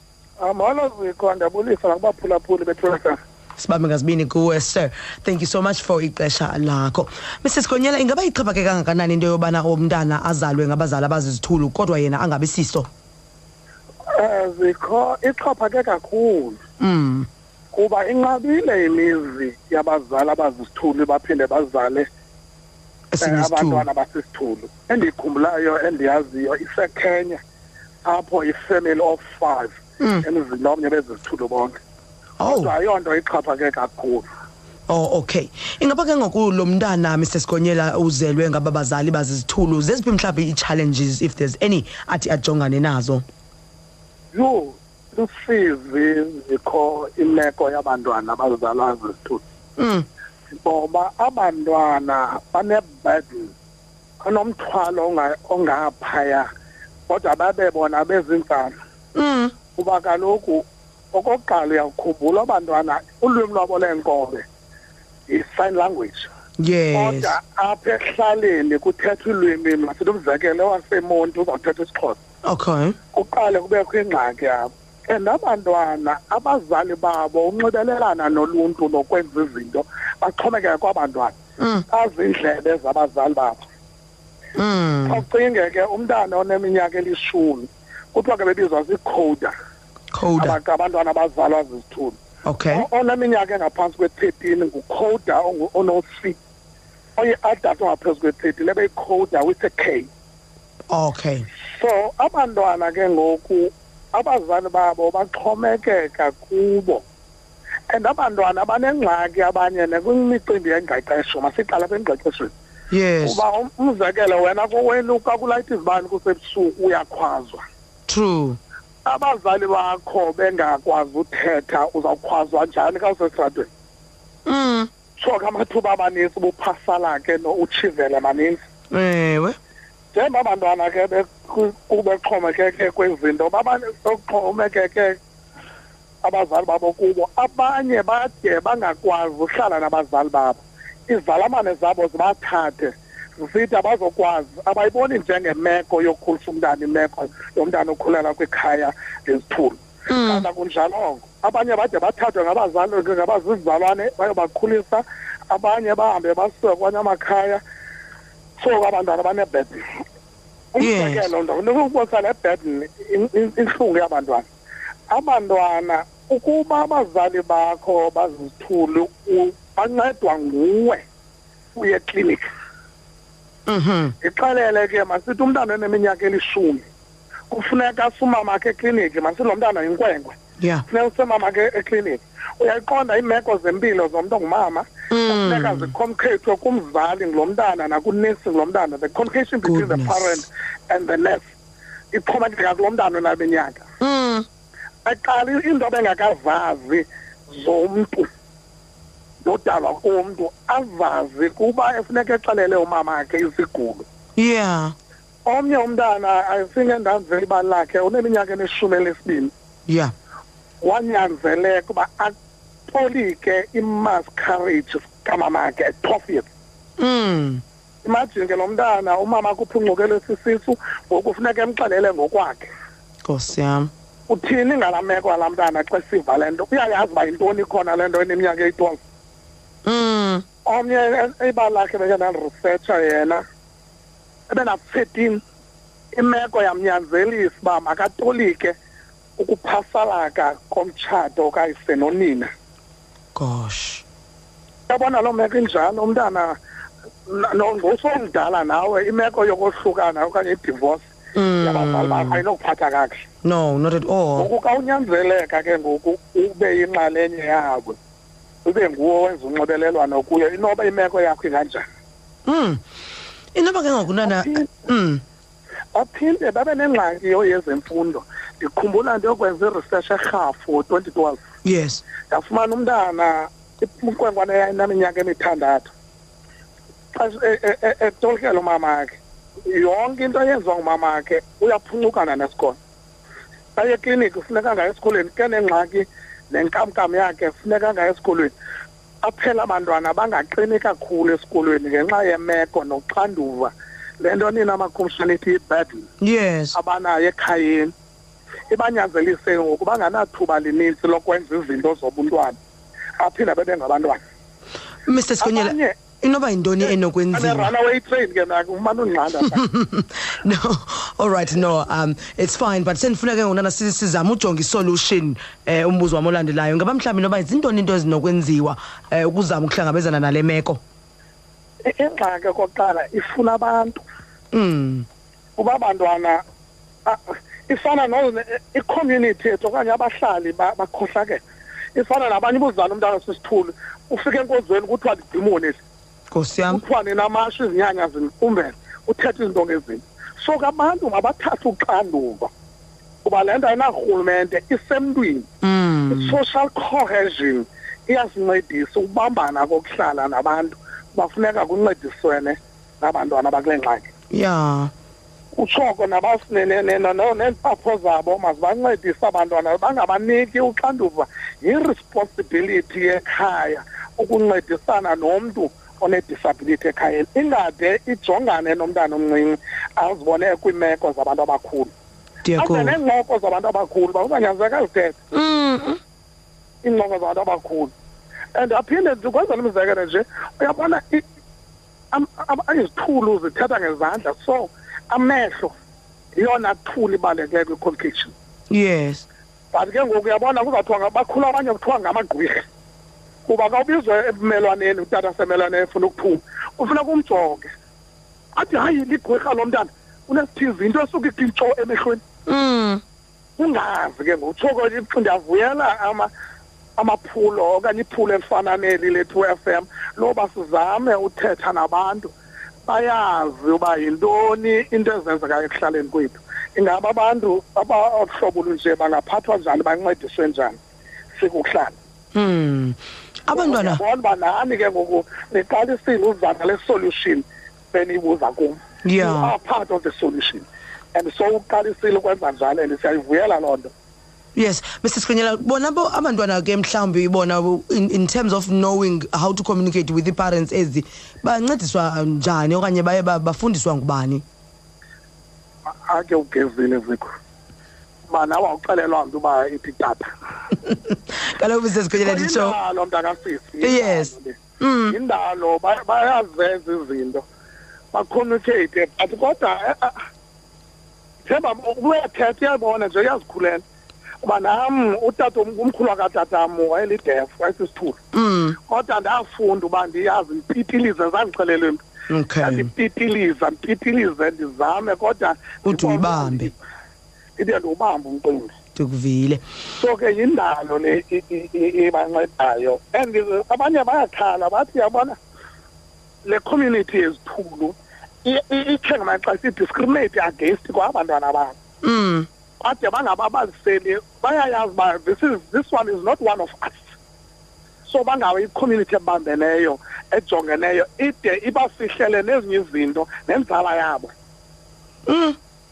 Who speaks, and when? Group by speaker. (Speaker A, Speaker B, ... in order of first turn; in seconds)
Speaker A: 0.4-3.2, 14.1-16.6, 17.7-22.1, 23.2-27.4, 28.0-31.8, 32.4-34.3, 44.3-49.4, 50.5-53.5, 54.2-56.5, 57.1-58.7, 59.7-64.4, 65.3-66.3, 66.9-72.2, 73.1-81.3, 81.9-83.6, 85.0-89.5, 90.4-92.2, 92.7-96.4, 97.2-100.1, 101.7-107.0, 107.9-112.5, 113.2-117.6, 119.0-123.7, 125.2-128.6, 130.1-135.2, 136.2-157.6, 158.6-159.8, 160.7-164.5, 165.1-171.0, 171.7-172.4, 174.2-176.8, 177.5-180.3, 180.9-191.4, 192.1-193.8, 195.0-198.3, 199.4-204.0, 205.4-209.5, 210.8-212.3, 212.9-216.5, 218.0-222.7, 224.3-229.0, 230.6-233.4, 234.5-235.4, 236.1-238.8, 239.4-242.5, 244.9-246.6, 247.3-251.1, 251.6-253.2, 254.3-258.0, 258.6-261.8, 264.2-264.7, 265.9-271.4, 272.3-275.9, 277.1-282.8, 283.7-288.5, 289.2-296.1, 296.7-297.9, 298.7-302.6, 303.2-304.2, 305.4-305.9, 307.3-309.6, 321.8-324.0, 325.6-326.4, 327.0-331.4, 331.9-335.8, 336.7-342.5, 343.2-345.5, 346.1-354.1, 355.5-371.9, 372.6-375.2, 376.8-377.9, 378.5-381.2, 382.1-385.7, 386.3-388.3, 389.7-392.6, 393.4-397.7, 398.5-402.2, 403.6-406.3, 407.0-412.3, 412.9-420.8, 421.3-421.9, 423.5-433.9, 445.9-447.3, 448.3-450.3, 452.2-454.6, 455.1-457.4, 458.1-460.1, 461.4-463.8, 464.4-468.2, 468.9-472.0, 472.6-476.8, 477.6-478.7, 479.9-485.4, 486.4-491.8, 492.8-497.1, 498.0-504.3
Speaker B: 3.6-12.9, 16.8-17.3, 23.1-23.9, 30.0-30.2, 32.4-32.7, 34.9-43.2, 49.8-50.0, 59.1-59.5, 66.6-67.4, 72.4-73.0, 81.6-81.8, 84.5-85.2, 90.1-90.6, 92.4-92.8, 100.9-101.5, 112.9-113.4, 118.1-118.6, 124.5-124.9, 128.9-129.6, 150.1-150.4, 160.8-161.3, 173.7-174.1, 185.1-185.9, 189.6-190.4, 194.0-194.4, 204.4-204.9, 209.9-210.1, 217.0-217.6, 223.2-223.9, 229.8-230.4, 243.3-244.0, 251.3-252.4, 253.4-254.5, 262.4-262.8, 263.5-265.2, 271.6-272.0, 296.2-296.8, 305.1-307.7, 309.5-320.8, 324.5-325.1, 336.3-336.8, 345.6-346.4, 354.3-354.9, 372.4-373.0, 375.3-376.0, 388.7-389.2, 402.5-403.0, 422.3-424.0, 429.0-429.5, 434.5-444.4, 450.9-452.8, 453.8-455.1, 468.3-468.8, 472.3-472.9, 475.8-476.7, 478.9-479.6, 492.0-492.5, 505.3-505.6